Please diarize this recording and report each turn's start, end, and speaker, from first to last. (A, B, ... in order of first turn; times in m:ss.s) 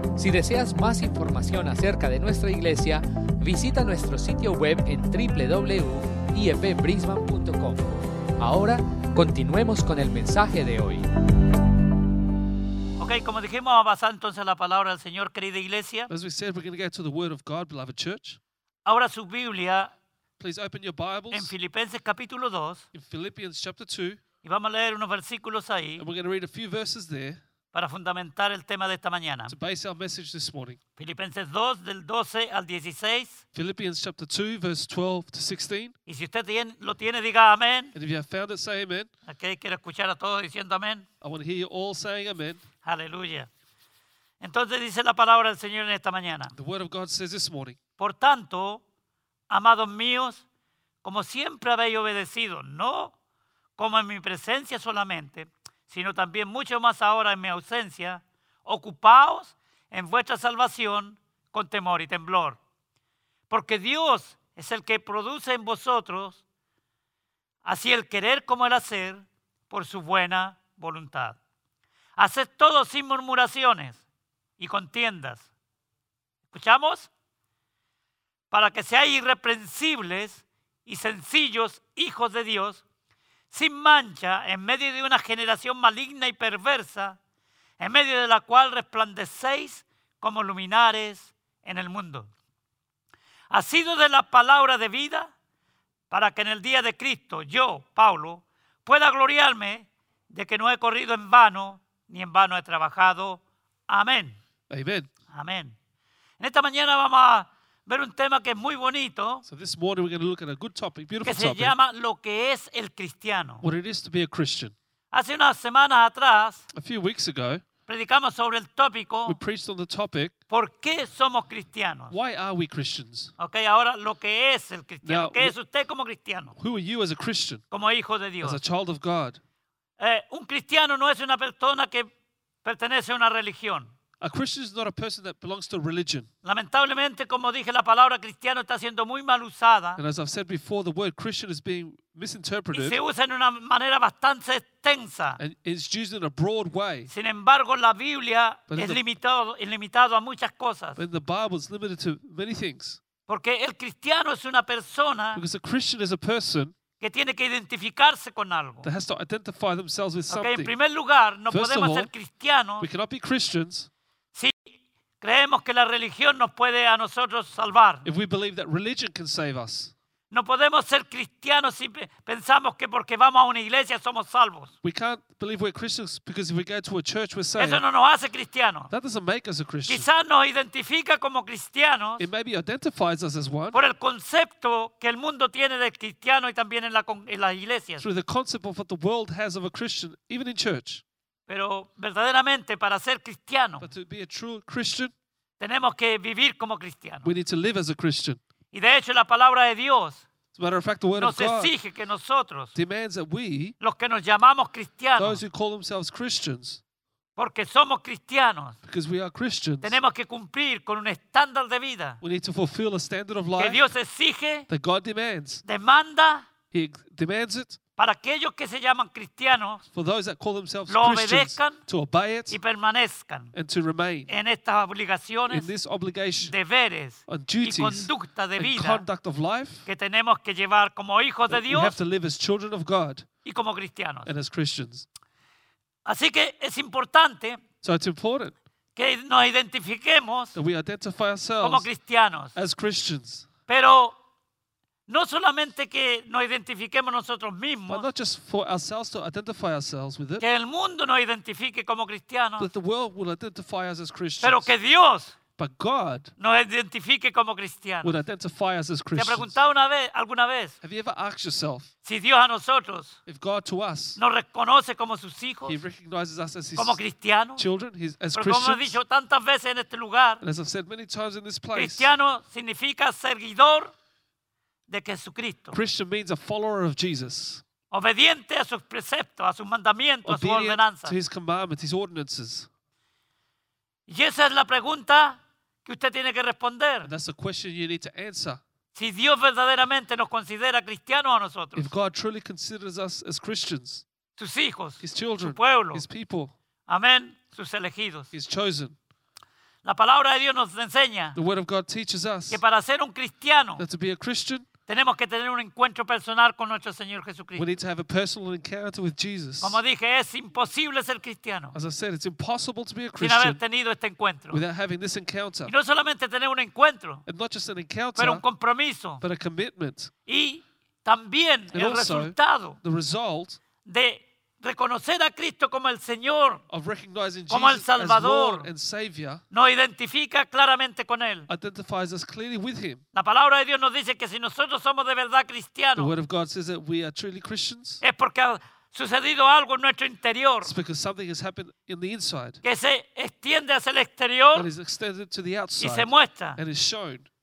0:00.1-0:11.0 A
0:13.0-0:16.1 B
0:16.1-0:18.4 C
0:18.8-0:19.9 B
0:20.4-0:21.5 C
0:21.3-0:22.8 B
0:22.9-0:24.2 C
0:24.4-0:26.0 B
0:26.0-0:27.4 C
0:27.7-0:29.5 B
0:29.5-0:30.8 C
0:31.0-0:33.4 B
0:33.5-0:35.9 C
0:36.1-0:37.9 B
0:37.9-0:39.1 C
0:39.3-0:41.0 B
0:41.2-0:42.6 C
0:42.8-0:43.5 B
0:44.4-0:46.5 B
0:46.5-0:47.8 C
0:48.0-0:48.8 B
0:49.5-0:50.4 B
0:51.0-0:53.1 B
0:53.8-1:02.6 B
1:03.5-1:06.4 B
1:07.6-1:11.4 B
1:12.2-1:14.0 B
1:14.6-1:15.4 B
1:16.5-1:17.1 B
1:18.5-1:22.8 B
1:23.5-1:27.2 B
1:27.8-1:32.3 B
1:33.5-1:35.3 B
1:36.1-1:44.4 B
1:44.7-1:45.1 C
1:45.3-1:45.7 B
1:46.4-1:49.4 B
1:49.4-1:51.8 C
1:51.2-1:53.6 B
1:53.6-1:54.7 C
1:55.1-1:56.6 B
1:56.7-1:57.6 C
1:57.9-1:59.4 B
1:59.2-2:00.4 C
2:00.5-2:02.1 B
2:02.1-2:03.3 C
2:03.4-2:06.5 B
2:05.0-2:05.5 C
2:06.6-2:07.6 C
2:07.7-2:08.6 B
2:08.4-2:09.4 C
2:10.0-2:12.1 B
2:12.6-2:13.9 B
2:14.2-2:16.3 C
2:16.4-2:20.0 B
2:20.0-2:23.0 C
2:22.7-2:25.4 B
2:25.4-2:27.1 C
2:27.1-2:31.0 B
2:28.7-2:29.0 C
2:31.0-2:33.0 C
2:33.3-2:35.4 B
2:35.3-2:36.7 C
2:37.0-2:38.9 B
2:38.8-2:40.7 C
2:40.3-2:42.9 B
2:41.5-2:42.1 C
2:42.8-2:43.9 C
2:45.2-2:48.1 B
2:48.0-2:49.9 C
2:50.3-2:54.7 B
2:54.8-2:57.8 C
2:57.6-2:58.9 B
2:58.9-3:00.1 C
2:59.9-3:02.3 B
3:02.2-3:03.8 C
3:03.7-3:08.0 B
3:08.0-3:11.0 C
3:11.5-3:13.8 B
3:13.8-3:15.1 C
3:15.6-3:17.3 B
3:17.2-3:18.4 C
3:18.7-3:20.2 B
3:20.5-3:21.7 C
3:21.2-3:22.7 B
3:22.7-3:23.7 C
3:23.8-3:25.4 B
3:25.2-3:26.8 C
3:27.4-3:28.8 B
3:28.8-3:30.0 C
3:29.8-3:32.2 B
3:32.2-3:33.9 C
3:33.6-3:34.7 B
3:34.7-3:35.6 C
3:35.6-3:36.4 B
3:36.7-3:37.8 C
3:38.0-3:39.8 B
3:39.9-3:42.6 C
3:40.9-3:41.8 B
3:42.5-3:43.5 B
3:43.5-3:44.3 C
3:44.3-3:45.7 B
3:45.5-3:46.6 C
3:46.4-3:49.0 B
3:47.3-3:49.9 C
3:49.9-3:52.0 B
3:51.5-3:53.3 C
3:53.4-3:54.3 B
3:54.2-3:55.1 C
3:56.0-3:57.6 B
3:57.8-3:58.5 C
3:59.0-4:00.6 B
4:00.5-4:01.9 C
4:01.6-4:02.5 B
4:02.5-4:03.5 C
4:03.7-4:04.1 B
4:05.1-4:08.0 B
4:07.9-4:10.4 C
4:10.4-4:12.7 B
4:12.6-4:14.7 C
4:14.4-4:15.4 B
4:15.6-4:16.3 C
4:16.4-4:18.2 B
4:18.0-4:19.6 C
4:19.1-4:20.7 B
4:20.8-4:21.9 C
4:22.0-4:23.2 B
4:23.2-4:24.2 C
4:24.2-4:25.8 B
4:25.6-4:27.0 C
4:26.8-4:27.6 B
4:27.6-4:29.0 C
4:28.3-4:30.4 B
4:30.4-4:32.1 C
4:31.7-4:33.9 B
4:34.9-4:35.8 B
4:35.7-4:37.6 C
4:37.9-4:41.1 B
4:40.2-4:42.7 C
4:44.1-4:47.1 B
4:47.0-4:48.6 C
4:48.9-4:51.9 B
4:51.8-4:54.0 C
4:54.4-4:56.0 B
4:55.0-4:56.5 C
4:56.9-4:58.3 B
4:58.3-4:59.0 C
4:59.8-5:01.4 B
5:01.3-5:02.6 C
5:02.5-5:03.8 B
5:03.8-5:04.7 C
5:04.9-5:07.6 B
5:07.6-5:09.8 C
5:09.6-5:11.7 B
5:11.7-5:13.6 C
5:13.2-5:14.6 B
5:14.5-5:15.7 C
5:15.6-5:17.2 B
5:17.2-5:18.4 C
5:18.2-5:19.2 B
5:19.2-5:20.1 C
5:20.3-5:22.8 B
5:21.7-5:23.6 C
5:23.8-5:26.6 B
5:26.7-5:29.4 C
5:27.5-5:28.7 B
5:29.5-5:31.5 B
5:31.5-5:33.0 C
5:33.1-5:36.1 B
5:36.0-5:38.0 C
5:38.0-5:40.7 B
5:40.6-5:42.6 C
5:42.6-5:44.7 B
5:44.5-5:47.3 C
5:45.8-5:46.6 B